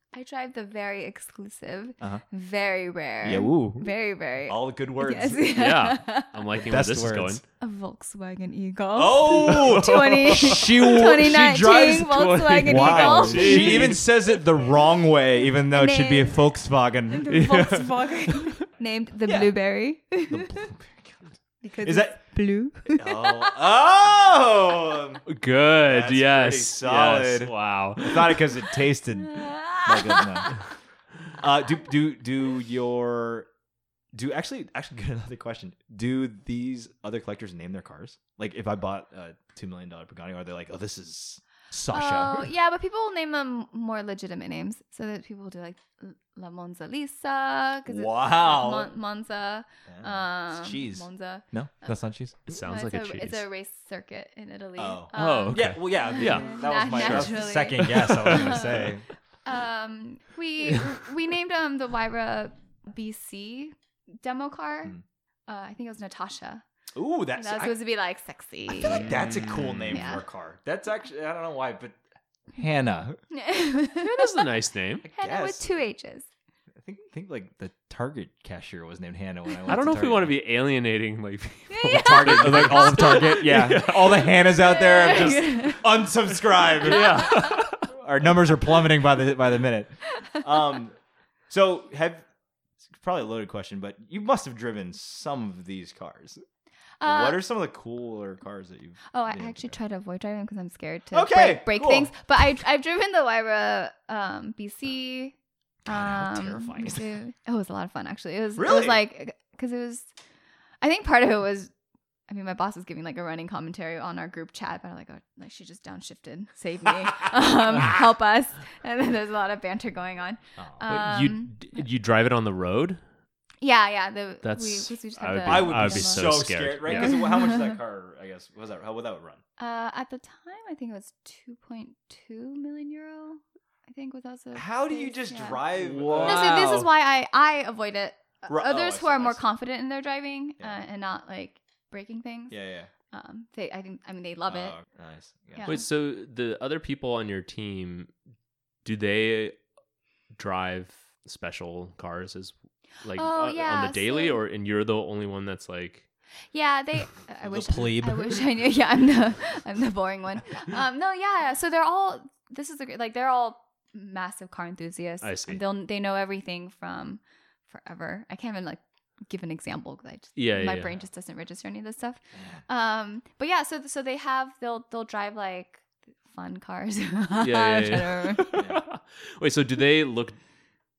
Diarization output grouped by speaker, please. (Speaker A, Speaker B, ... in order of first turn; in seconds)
Speaker A: 0.1-6.6, 7.6-14.0, 15.7-16.5, 17.1-20.6, 21.6-23.6, 29.2-30.5, 41.9-52.0, 52.5-58.9, 59.4-66.6, 67.4-69.1, 69.9-70.2, 73.3-74.3, 75.1-76.3, 81.7-83.4, 84.6-85.8, 90.1-90.4, 97.0-97.4, 99.1-110.1, 110.8-111.7, 112.3-121.8, 123.6-127.7, 129.6-135.6, 136.2-142.6, 143.1-144.8, 145.5-145.8, 153.1-154.4, 156.5-178.6
Speaker B: 3.2-3.9, 4.5-5.6, 6.6-7.4, 8.9-17.5, 19.2-19.5, 20.2-22.2, 22.9-25.2, 25.8-30.5, 31.3-33.5, 34.1-42.5, 47.9-48.9, 49.9-52.5, 54.8-59.0, 66.9-67.7, 68.7-72.0, 72.5-73.2, 75.0-75.7, 76.8-80.3, 81.9-91.0, 91.5-92.2, 92.9-96.4, 97.0-99.8, 101.1-102.1, 105.8-107.2, 108.6-109.0, 125.4-129.4, 134.5-136.7, 138.5-139.4, 142.5-142.9, 144.5-145.8, 157.4-158.4, 172.3-172.6, 178.6-178.8
Speaker C: 5.5-7.4, 9.9-10.5, 12.1-14.1, 17.3-18.5, 25.3-28.5, 52.5-53.4, 55.1-58.7, 68.8-70.0, 74.0-75.0, 79.7-85.5, 86.8-87.9, 120.8-123.0, 124.4-127.2, 135.8-136.9, 145.6-148.1, 148.8-149.6, 150.3-156.1, 165.2-165.6, 170.4-171.0, 177.4-180.4